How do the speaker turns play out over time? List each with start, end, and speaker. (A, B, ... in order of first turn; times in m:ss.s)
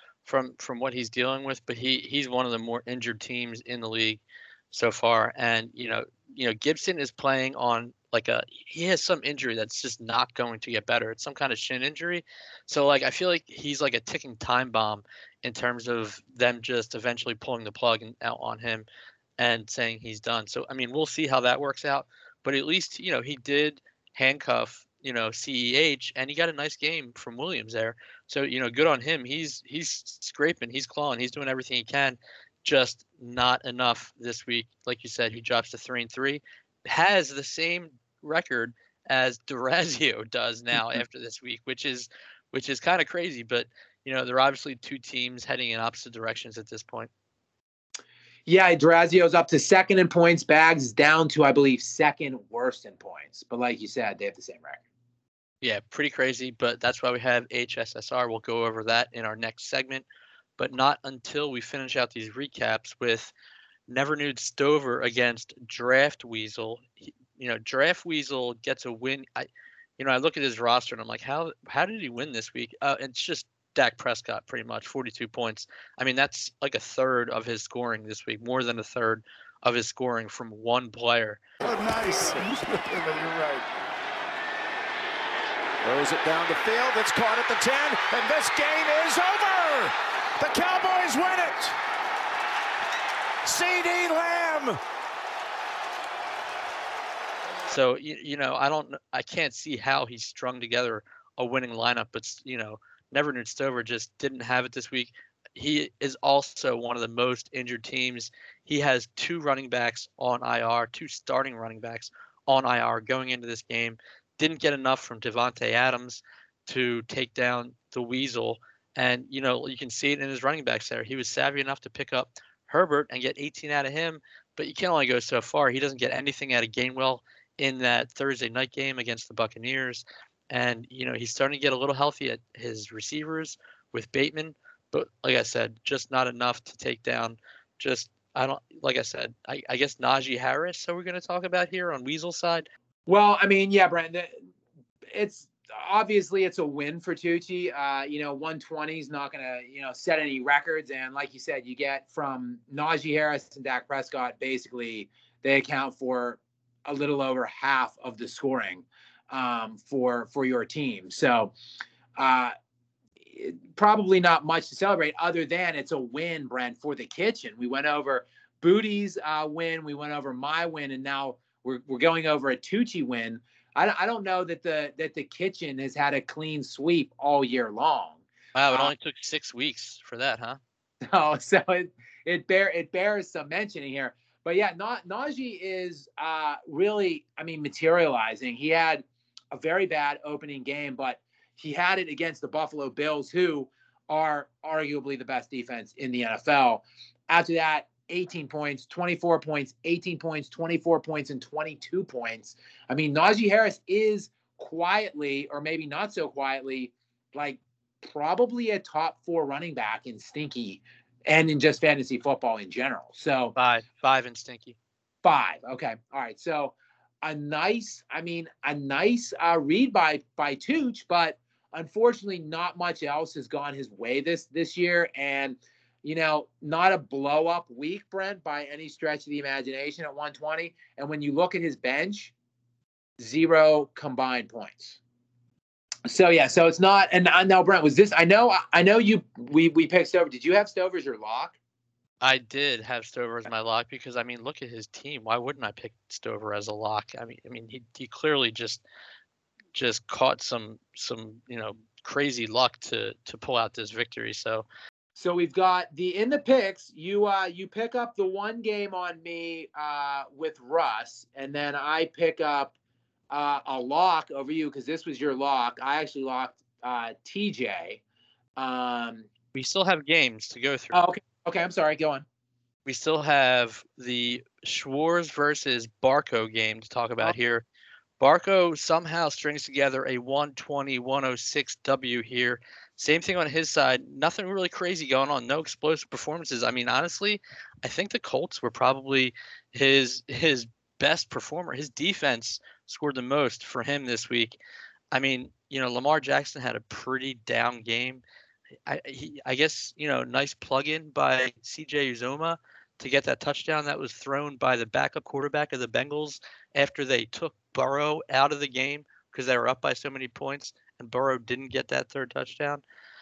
0:00.2-0:18.8 A
0:19.4-0:47.1 A
0:48.5-0:54.8 B
0:55.6-1:00.0 A
1:00.6-1:03.3 A
1:03.9-1:21.4 A
1:21.6-1:23.7 C
1:25.8-1:31.8 C
1:33.4-1:34.8 C
1:37.7-2:22.7 A
2:23.1-2:24.4 B
2:25.1-2:41.5 B
2:42.2-2:42.5 B
2:43.2-2:58.9 B
2:58.5-3:00.6 A
3:01.1-3:33.5 B
3:33.6-3:34.8 A
3:35.2-3:52.3 B
3:53.2-3:55.0 B
3:56.0-4:01.6 B
4:02.2-4:08.8 A
4:09.7-4:14.6 A
4:15.2-4:22.7 B
4:23.3-4:28.0 B
4:28.6-4:29.3 B
4:29.5-4:31.0 A
4:30.9-4:32.2 B
4:32.8-4:37.6 A
4:38.2-4:54.6 A
4:55.1-4:58.2 A
4:58.8-5:12.8 A